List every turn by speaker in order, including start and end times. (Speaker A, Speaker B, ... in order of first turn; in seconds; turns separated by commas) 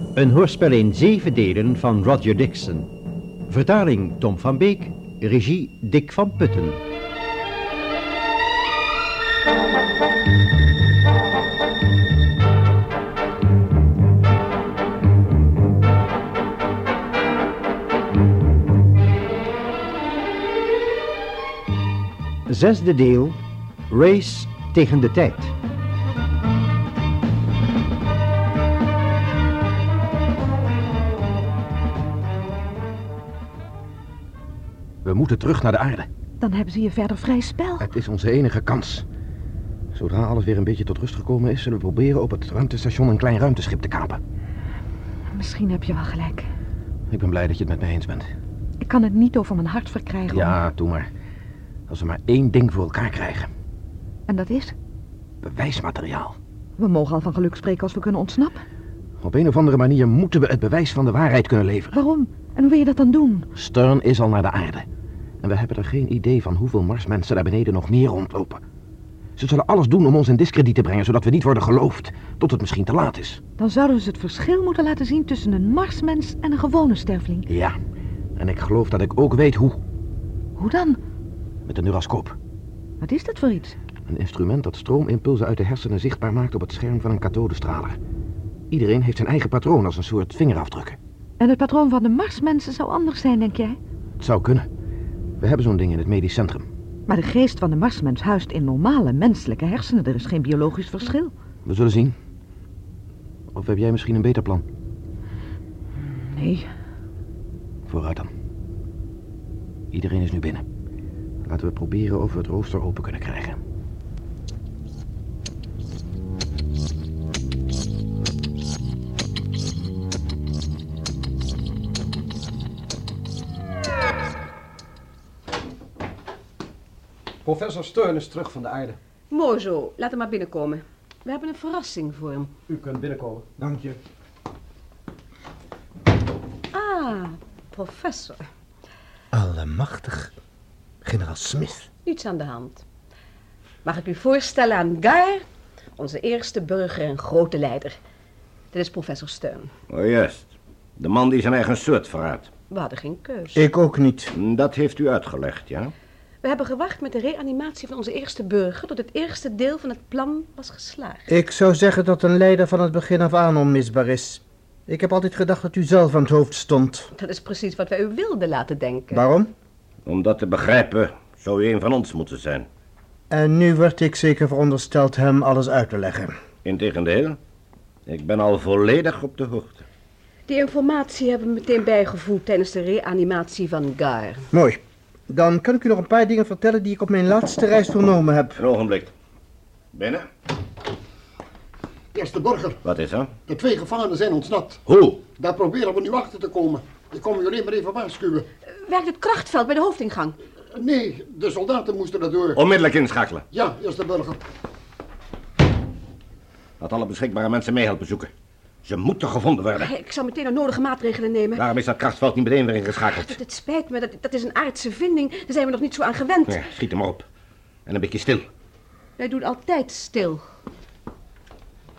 Speaker A: 0.1-2.9, Speaker A: 3.5-6.8, Speaker A: 22.5-25.5, Speaker B: 35.0-36.1, Speaker C: 36.4-37.9, Speaker B: 37.8-39.0, Speaker B: 39.9-44.2, Speaker C: 45.3-46.5, Speaker B: 47.1-48.2, Speaker C: 48.8-50.6, Speaker B: 50.3-51.1, Speaker B: 51.9-53.5, Speaker C: 54.3-54.7, Speaker B: 55.4-56.4, Speaker C: 56.8-58.6, Speaker B: 59.2-61.9, Speaker C: 61.9-63.5, Speaker B: 63.5-64.8, Speaker B: 65.4-68.6, Speaker B: 69.4-73.4, Speaker C: 73.6-77.5, Speaker B: 77.5-77.8, Speaker B: 78.4-79.8, Speaker C: 80.6-81.0, Speaker B: 81.7-82.3, Speaker C: 83.0-83.8, Speaker B: 84.1-88.0, Speaker B: 88.7-91.0, Speaker C: 91.4-93.8, Speaker B: 94.2-94.7, Speaker B: 95.4-96.7, Speaker C: 97.1-101.3, Speaker B: 101.6-102.2, Speaker B: 103.5-104.6, Speaker C: 106.1-106.7, Speaker B: 107.9-108.3, Speaker B: 109.9-110.6, Speaker B: 111.4-113.6, Speaker D: 127.4-129.0, Speaker E: 129.3-132.5, Speaker D: 132.7-134.0, Speaker E: 136.7-138.4, Speaker F: 139.3-140.3, Speaker F: 141.0-141.9, Speaker E: 142.0-142.8, Speaker E: 143.8-145.4, Speaker E: 146.0-148.0, Speaker E: 148.7-149.7, Speaker G: 149.9-152.5, Speaker E: 152.7-153.7, Speaker F: 153.5-154.3, Speaker G: 154.3-155.9, Speaker E: 156.4-161.3, Speaker F: 161.3-167.1, Speaker E: 167.2-169.2, Speaker F: 169.1-169.5, Speaker G: 170.1-172.7, Speaker F: 173.3-176.3, Speaker G: 176.6-177.4, Speaker G: 178.1-179.8, Speaker E: 180.5-184.5, Speaker F: 184.5-188.6, Speaker G: 188.6-189.1, Speaker G: 189.9-190.3, Speaker H: 192.1-192.8, Speaker G: 192.8-193.3, Speaker H: 193.5-198.5, Speaker G: 194.8-195.2, Speaker E: 198.8-200.4, Speaker H: 200.7-202.6, Speaker G: 202.6-203.4, Speaker H: 203.5-204.4, Speaker G: 206.8-208.3, Speaker G: 208.8-209.9, Speaker E: 209.8-211.7, Speaker G: 211.5-213.4, Speaker E: 213.1-216.7, Speaker G: 216.5-217.2, Speaker G: 217.8-218.4, Speaker E: 219.2-220.4